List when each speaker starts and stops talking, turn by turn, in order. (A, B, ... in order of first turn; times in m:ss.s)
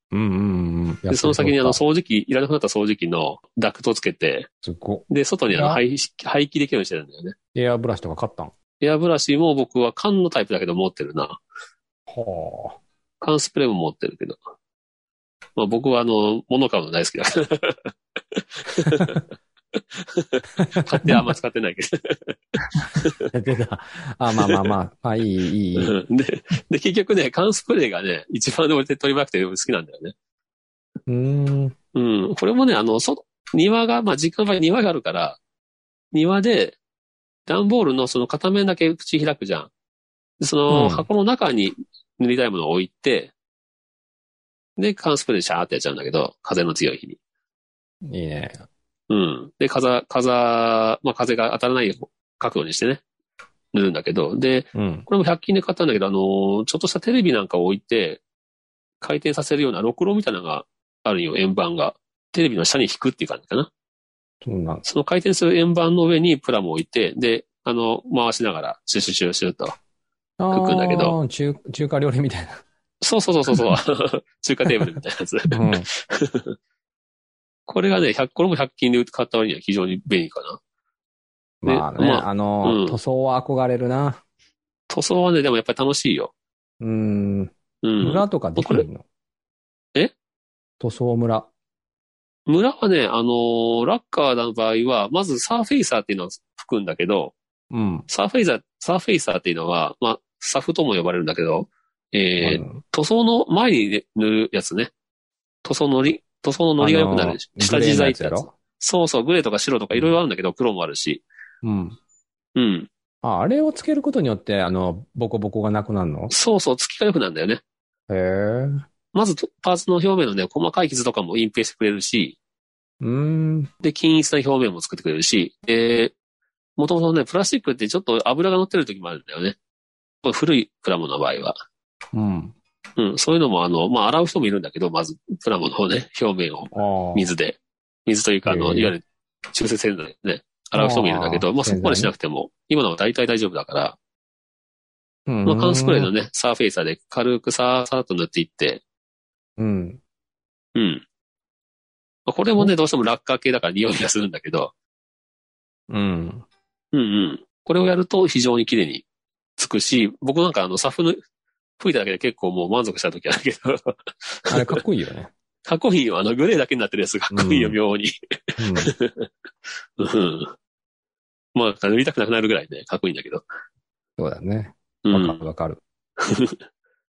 0:00.1-0:01.8 A
0:01.1-0:04.5 B
0:04.6-0:05.8 A
0:05.1-0:07.3 B
0:07.5-0:08.5 A
0:08.8-0:11.4 B
0:12.1-0:12.8 A
0:13.2-0:14.4 B
0:15.6-0:19.2 B
0:19.8-0:22.4 B
0:20.6-0:21.2 A
0:22.9-0:23.3 B
0:23.3-0:25.9 A
0:24.4-0:24.6 B
0:25.8-0:30.1 B
0:31.1-0:31.7 A
0:31.9-0:35.4 B
0:36.1-0:36.8 B
0:37.4-0:39.7 B
0:40.4-0:43.3 B
0:40.7-0:41.1 A
0:44.8-0:47.2 B
0:48.0-0:48.6 A
0:49.1-0:53.0 B
0:53.7-0:58.2 B
0:54.7-0:55.0 A
0:59.0-1:03.7 B
1:04.4-1:04.8 A
1:04.8-1:09.8 B
1:10.4-1:12.6 A
1:10.5-1:11.1 B
1:13.0-1:16.5 B
1:15.5-1:15.9 A
1:17.7-1:20.6 B
1:21.6-1:24.2 A
1:21.6-1:23.0 B
1:24.9-1:26.3 B
1:26.8-1:29.0 A
1:27.8-1:28.8 B
1:30.8-1:31.5 A
1:32.5-1:37.3 B
1:37.7-1:38.1 A
1:38.1-1:44.9 B
1:42.4-1:42.8 A
1:45.6-1:51.2 B
1:46.8-1:48.5 A
1:51.6-1:52.0 A
1:52.6-1:52.9 B
1:53.2-1:56.3 A
1:56.3-1:57.6 B
1:58.1-1:58.8 A
1:59.1-2:02.4 B
2:03.0-2:03.7 A
2:03.8-2:06.1 B
2:06.8-2:09.6 B
2:10.2-2:11.5 B
2:12.1-2:12.5 A
2:13.0-2:24.0 B
2:16.7-2:17.3 A
2:18.4-2:18.9 A
2:20.7-2:22.1 A
2:25.3-2:26.1 A
2:25.4-2:28.8 B
2:29.6-2:30.0 A
2:30.7-2:31.0 B
2:32.2-2:34.7 B
2:35.9-2:36.4 A
2:36.9-2:39.0 B
2:39.6-2:41.2 B
2:41.8-2:44.8 B
2:44.5-2:45.3 A
2:45.6-2:49.3 B
2:47.3-2:47.8 A
2:48.6-2:48.9 A
2:50.0-2:50.5 B
2:51.5-2:53.4 B
2:54.2-2:55.8 A
2:55.0-2:55.4 B
2:56.2-2:56.6 B